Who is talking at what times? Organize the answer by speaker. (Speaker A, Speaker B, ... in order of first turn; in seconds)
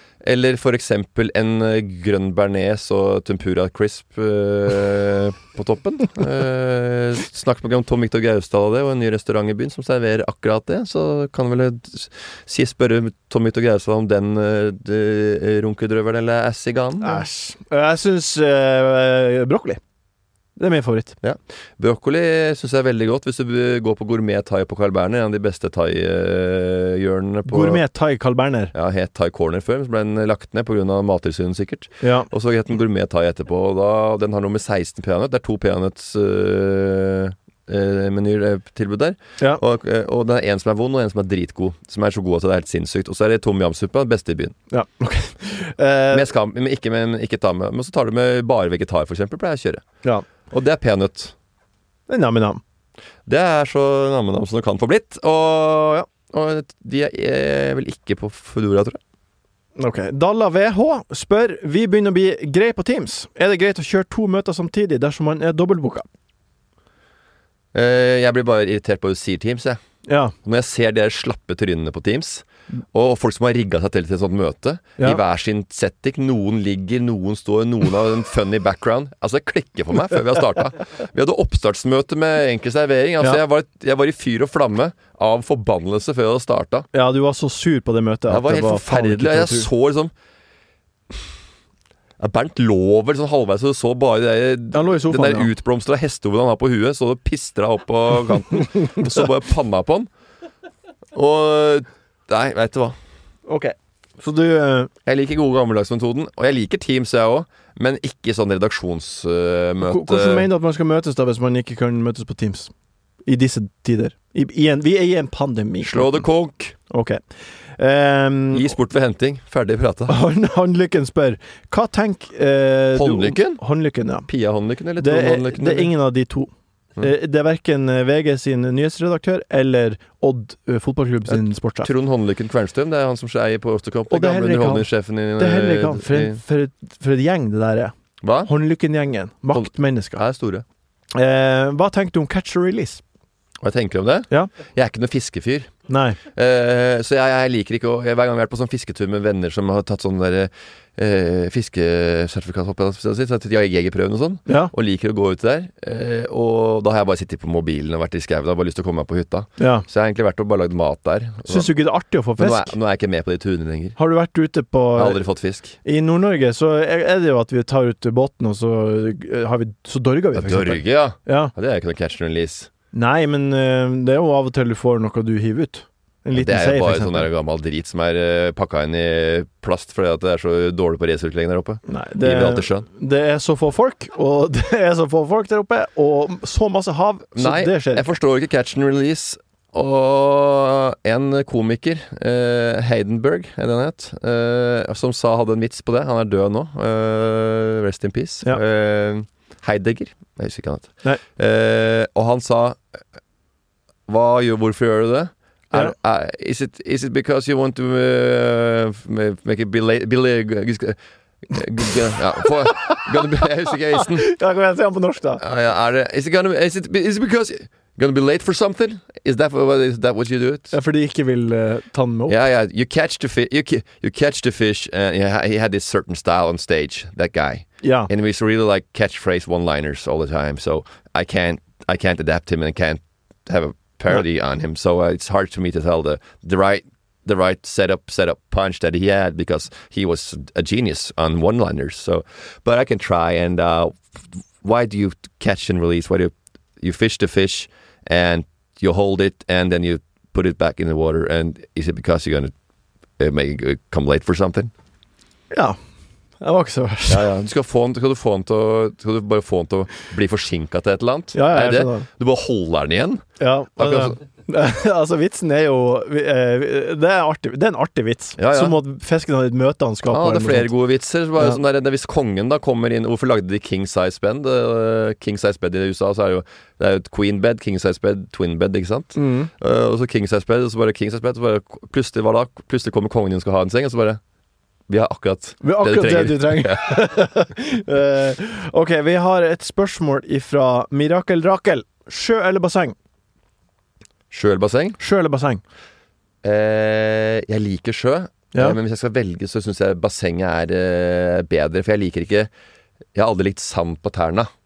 Speaker A: 0.2-17.3, 21.2-27.8, 28.7-44.5, 46.1-49.9, 50.5-51.3, 53.3-59.0, 67.7-69.8, 70.4-86.9, 88.3-90.1, 92.2-100.1, 101.1-103.0, 105.0-110.5, 115.8-116.8, 118.5-120.2, 123.0-123.6, 124.3-125.9, 131.3-136.4, 138.2-138.5, 139.5-140.6, 143.6-145.7, 146.3-161.7, 162.4-164.0, 165.0-165.8, 170.3-172.7, 176.3-182.9, 187.4-202.8, 204.1-211.0, 211.5-214.3, 215.4-220.7, 222.3-252.5, 253.2-254.7, 257.1-263.2, 263.8-264.2, 268.4-268.8, 270.1-284.2, 284.9-287.1, 294.3-295.0, 296.4-302.5, 303.1-304.5
Speaker B: 17.0-19.8, 20.6-21.2, 27.5-28.7, 32.0-32.3, 44.7-46.3, 52.1-52.6, 59.8-66.1, 70.1-70.3, 86.9-89.7, 94.7-95.5, 98.8-99.1, 103.5-104.9, 109.8-112.7, 113.3-116.2, 116.9-117.2, 117.8-118.7, 120.1-124.3, 125.0-131.9, 134.1-137.9, 138.4-140.2, 141.2-143.0, 145.9-146.2, 154.5-154.7, 159.6-159.9, 161.5-162.8, 164.0-165.2, 165.8-171.5, 172.9-177.3, 181.9-188.1, 212.4-213.1, 214.0-215.4, 220.7-222.4, 227.8-228.1, 255.5-255.8, 256.4-257.3, 261.3-262.1, 263.4-270.7, 279.2-279.5, 285.6-292.9, 295.0-295.6